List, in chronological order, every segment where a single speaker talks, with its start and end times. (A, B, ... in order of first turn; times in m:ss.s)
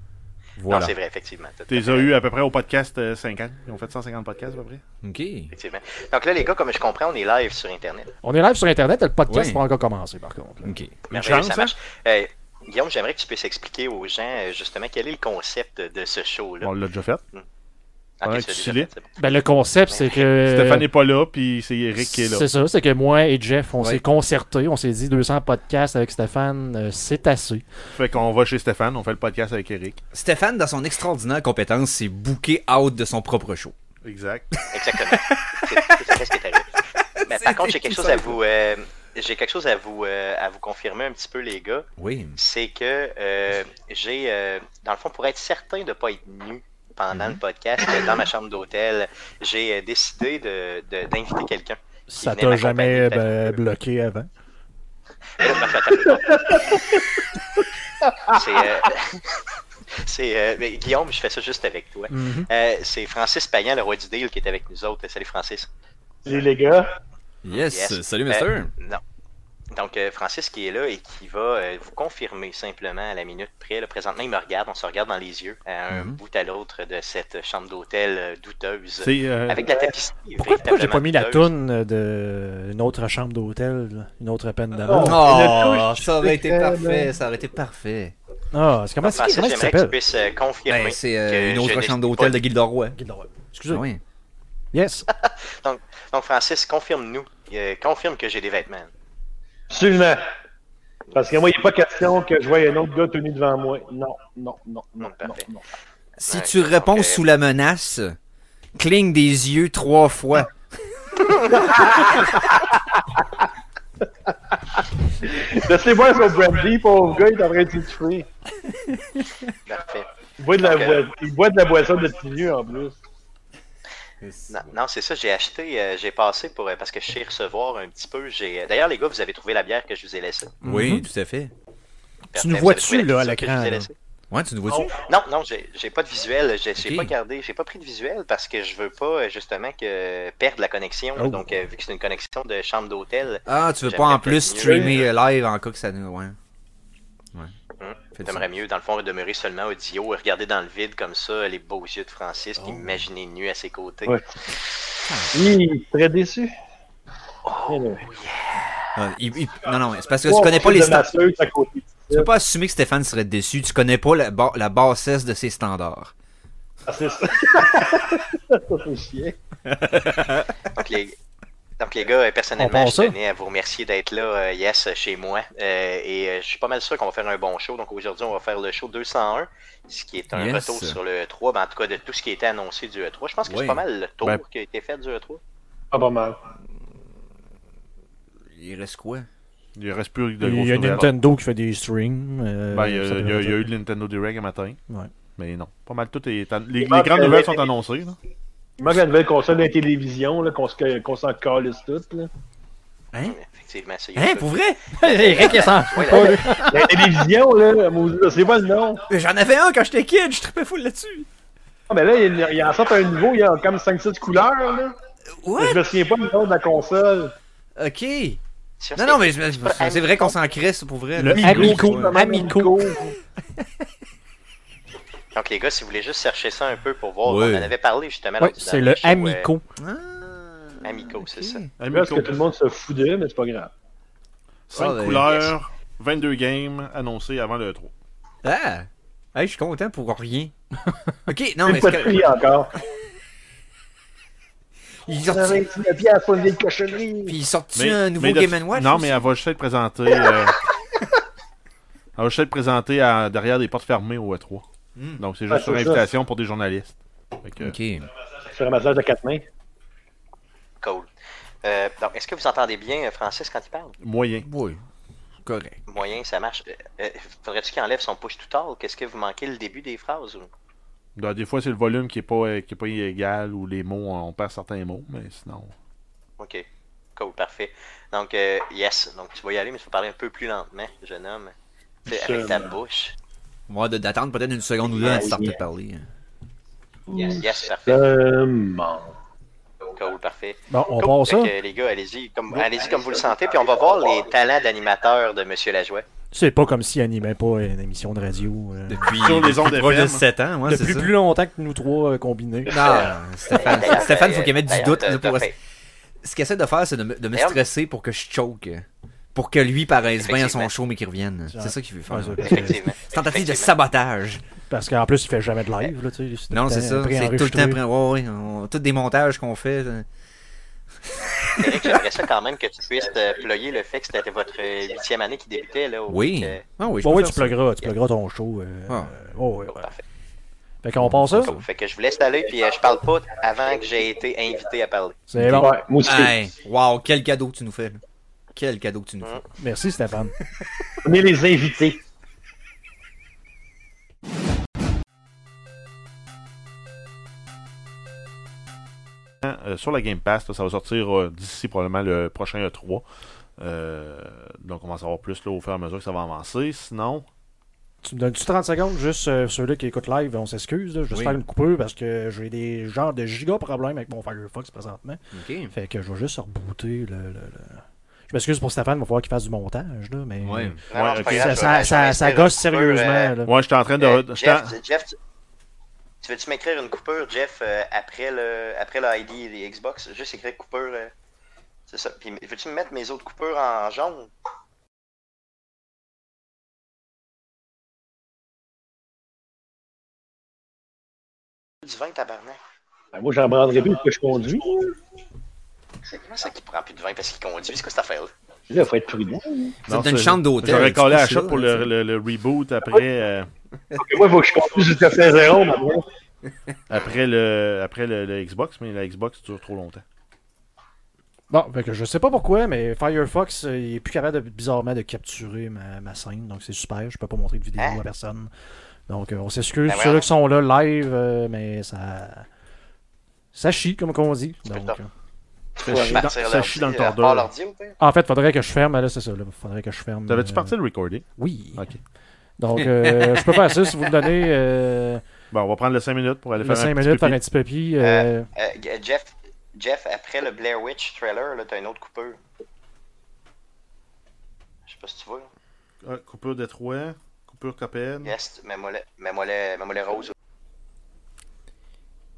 0:00.6-0:00.9 A
0:00.7-0:02.1 B
0:01.7-0:04.8 C
0:05.0-0:05.5 A
0:05.5-0:08.1 B
0:08.2-0:10.7 D
0:09.3-0:09.6 A
0:10.6-0:11.0 A
0:11.1-0:11.7 C
0:11.1-0:16.7 B
0:16.6-0:17.2 C
0:18.2-0:19.1 B
0:18.2-0:18.9 C
0:19.2-0:20.9 D
0:19.9-0:20.3 B
0:20.4-0:22.4 C
0:22.0-0:27.6 D
0:28.0-0:30.0 C
0:30.1-0:33.7 A
0:34.0-0:34.5 C
0:34.7-0:36.7 B
0:37.2-0:38.4 A
0:37.3-0:53.6 B
0:42.0-0:42.4 A
0:47.1-0:47.4 A
0:52.1-0:54.3 D
0:55.4-0:56.8 B
0:56.3-0:56.6 E
0:58.3-0:59.2 B
1:00.0-1:05.7 B
1:02.1-1:02.5 D
1:06.2-1:06.9 E
1:07.4-1:08.7 A
1:07.5-1:09.0 B
1:09.7-1:21.5 B
1:15.9-1:16.2 A
1:19.0-1:19.6 C
1:20.4-1:25.2 D
1:24.8-1:27.1 E
1:25.0-1:28.1 A
1:28.5-1:30.0 D
1:29.0-1:32.4 B
1:30.7-1:33.0 A
1:33.0-1:33.8 D
1:33.7-1:34.0 A
1:34.7-1:35.0 D
1:35.1-1:38.9 B
1:39.7-1:40.2 E
1:41.1-1:45.6 E
1:45.0-1:45.4 B
1:46.2-1:48.1 A
1:46.2-1:47.2 B
1:48.8-1:50.5 A
1:55.2-1:58.3 E
1:59.7-2:00.0 B
2:00.4-2:03.0 E
2:00.6-2:01.0 B
2:04.2-2:04.7 A
2:04.5-2:10.6 B
2:10.6-2:11.1 D
2:10.6-2:11.5 A
2:12.3-2:13.9 D
2:12.3-2:13.9 B
2:14.3-2:14.9 A
2:14.9-2:25.1 B
2:16.8-2:17.1 A
2:21.2-2:21.4 D
2:23.5-2:26.4 A
2:24.6-2:24.9 E
2:27.8-2:34.6 B
2:28.1-2:28.5 A
2:32.6-2:33.0 A
2:35.1-2:35.5 A
2:35.3-2:36.5 E
2:37.5-2:38.0 E
2:39.0-2:41.2 A
2:40.2-2:42.3 E
2:42.1-2:46.1 A
2:46.9-2:49.4 E
2:49.7-2:50.5 A
2:50.8-2:51.2 B
2:51.8-3:05.4 B
2:52.6-2:53.2 D
3:00.3-3:01.0 A
3:03.4-3:03.8 A
3:05.9-3:06.4 E
3:08.5-3:09.3 A
3:09.8-3:11.1 C
3:10.4-3:13.7 D
3:12.7-3:14.8 C
3:15.4-3:18.2 C
3:16.8-3:17.7 E
3:18.8-3:22.3 E
3:23.2-3:26.4 B
3:24.2-3:26.9 A
3:25.2-3:26.7 D
3:26.2-3:29.0 E
3:29.1-3:31.3 A
3:31.9-3:34.9 E
3:35.4-3:35.9 A
3:35.6-3:37.3 E
3:37.8-3:38.4 A
3:38.8-3:40.4 B
3:39.0-3:42.2 A
3:41.2-3:42.8 D
3:41.3-3:43.2 E
3:45.3-3:49.5 B
3:47.2-3:47.7 A
3:48.4-3:49.6 D
3:49.8-3:51.7 A
3:50.8-3:51.6 B
3:51.8-3:52.4 C
3:51.9-3:53.7 E
3:54.7-3:57.9 C
3:54.7-3:55.4 A
3:55.2-3:55.5 B
3:58.4-4:00.5 A
4:01.2-4:02.3 A
4:01.6-4:02.7 E
4:05.1-4:05.7 A
4:05.3-4:07.4 E
4:07.2-4:09.2 A
4:07.7-4:10.5 C
4:12.2-4:14.6 C
4:15.0-4:15.2 A
4:15.2-4:17.8 C
4:15.5-4:16.0 E
4:17.6-4:18.1 A
4:18.5-4:19.4 E
4:20.8-4:21.1 B
4:21.6-4:23.9 B
4:24.0-4:24.4 C
4:24.4-4:24.8 A
4:25.4-4:25.8 A
4:25.9-4:30.5 B
4:31.2-4:35.7 C
4:36.4-4:36.6 B
4:37.2-4:41.5 B
4:42.1-4:42.8 E
4:42.1-4:43.1 B
4:43.7-4:46.0 A
4:45.0-4:45.6 E
4:47.1-4:49.1 E
4:47.2-4:48.0 B
4:49.9-4:56.0 B
4:50.7-4:51.5 D
4:56.3-4:59.1 D
4:58.9-5:01.1 A
4:59.2-5:00.2 C
5:00.7-5:02.7 D
5:02.7-5:05.5 A
5:02.8-5:05.5 B
5:06.2-5:14.4 A
5:07.3-5:07.6 B
5:10.2-5:10.7 B
5:11.5-5:12.8 D
5:12.4-5:13.8 B
5:14.7-5:17.8 D
5:16.5-5:20.0 A
5:21.6-5:26.6 B
5:21.6-5:21.9 A
5:26.1-5:27.5 A
5:27.0-5:29.9 D
5:29.7-5:30.0 B
5:30.8-5:31.5 D
5:31.0-5:31.6 A
5:31.3-5:35.2 B
5:35.3-5:35.7 D
5:35.4-5:38.0 A
5:35.6-5:36.4 E
5:38.5-5:39.4 A
5:39.6-5:40.3 D
5:41.0-5:42.0 E
5:49.4-5:53.0 C
5:53.6-5:57.2 C
5:58.0-6:13.5 D
6:01.1-6:01.4 A
6:05.3-6:05.7 A
6:10.4-6:10.8 A
6:10.9-6:13.4 B
6:10.9-6:11.6 C
6:13.4-6:14.7 C
6:14.0-6:15.2 B
6:16.2-6:21.1 B
6:21.9-6:24.3 B
6:31.8-6:32.6 B
6:33.1-6:34.9 E
6:36.0-6:38.3 B
6:38.7-6:39.7 E
6:39.9-6:41.9 A
6:39.9-6:43.5 C
6:44.0-6:46.0 E
6:46.9-6:50.0 C
6:51.5-6:58.5 D
6:59.1-7:02.4 D
6:59.8-7:00.3 B
7:03.5-7:05.1 D
7:04.7-7:05.0 B
7:05.8-7:06.2 E
7:05.8-7:07.5 C
7:06.1-7:08.0 B
7:08.0-7:10.7 D
7:10.3-7:12.0 C
7:11.4-7:11.8 D
7:12.6-7:15.2 D
7:13.0-7:13.4 A
7:15.5-7:17.4 C
7:16.6-7:18.4 D
7:18.0-7:22.4 B
7:24.9-7:25.5 B
7:26.0-7:28.3 C
7:28.2-7:30.3 B